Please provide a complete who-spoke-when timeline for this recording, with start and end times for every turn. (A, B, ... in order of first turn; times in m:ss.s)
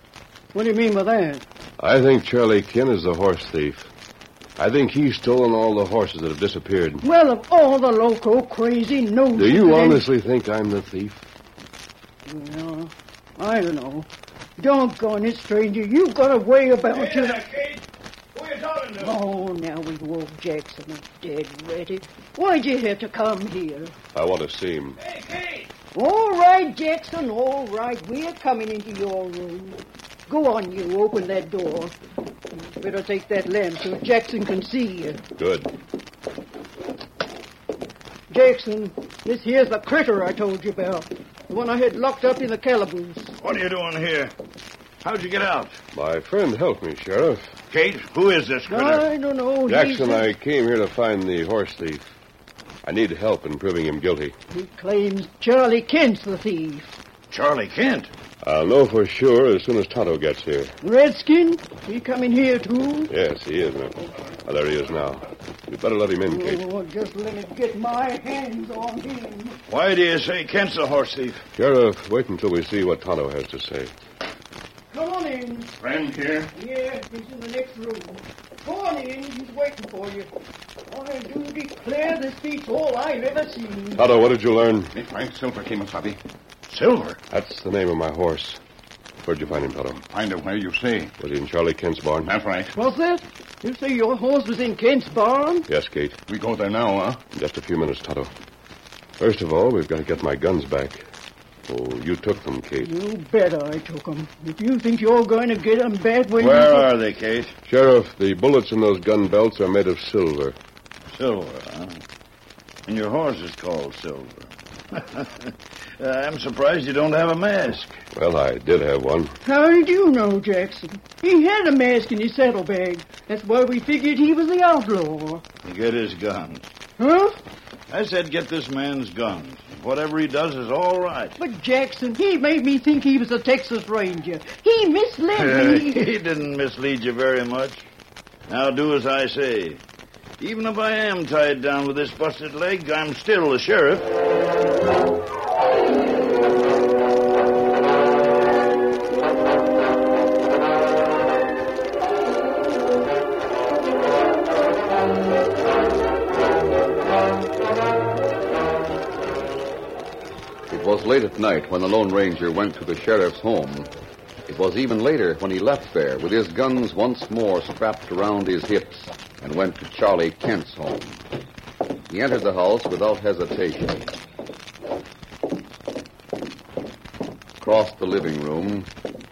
0:00.5-0:01.4 A
0:01.8-0:03.9 B
0:04.6-0:07.0 B
0:07.0-0:10.0 A
0:09.3-0:11.2 B
0:12.2-0:17.4 A
0:16.9-0:19.2 C
0:19.0-0:23.9 A
0:24.1-0:25.0 B
0:25.0-0:25.7 C
0:25.9-0:31.9 A
0:32.8-0:35.2 A
0:35.4-0:35.7 B
0:38.3-0:43.4 A
0:43.4-0:44.3 C
0:45.0-0:45.8 C
0:45.9-0:47.6 B
0:47.7-0:49.0 C
0:48.7-0:50.3 A
0:49.7-0:52.1 B
0:52.8-0:54.3 B
0:54.5-0:56.9 A
0:57.3-0:58.1 C
0:58.4-1:00.7 B
1:00.8-1:03.1 A
1:03.1-1:06.6 B
1:06.3-1:09.6 A
1:09.7-1:11.4 C
1:11.6-1:13.9 B
1:14.9-1:15.7 A
1:15.8-1:16.5 D
1:16.5-1:20.3 A
1:20.9-1:24.0 A
1:24.0-1:24.9 B
1:24.9-1:26.2 D
1:26.7-1:27.2 D
1:27.3-1:28.6 B
1:29.2-1:30.0 B
1:30.1-1:31.1 D
1:31.2-1:32.3 B
1:32.2-1:32.7 D
1:32.7-1:35.7 A
1:35.7-1:36.2 B
1:36.3-1:37.2 D
1:37.3-1:38.3 B
1:39.2-1:41.0 B
1:41.7-1:42.9 B
1:42.8-1:46.9 A
1:46.4-1:47.5 C
1:47.6-1:50.6 B
1:51.1-1:52.0 C
1:52.8-1:55.5 C
1:56.0-1:58.0 C
1:58.1-1:59.4 B
1:59.4-2:05.4 A
2:05.6-2:06.6 C
2:07.0-2:07.4 A
2:07.9-2:11.4 C
2:11.4-2:16.1 A
2:15.3-2:17.8 C
2:18.5-2:19.8 C
2:20.4-2:24.1 C
2:40.7-2:43.9 E
2:44.5-2:51.2 E
2:52.1-2:54.1 E
2:57.6-2:58.9 E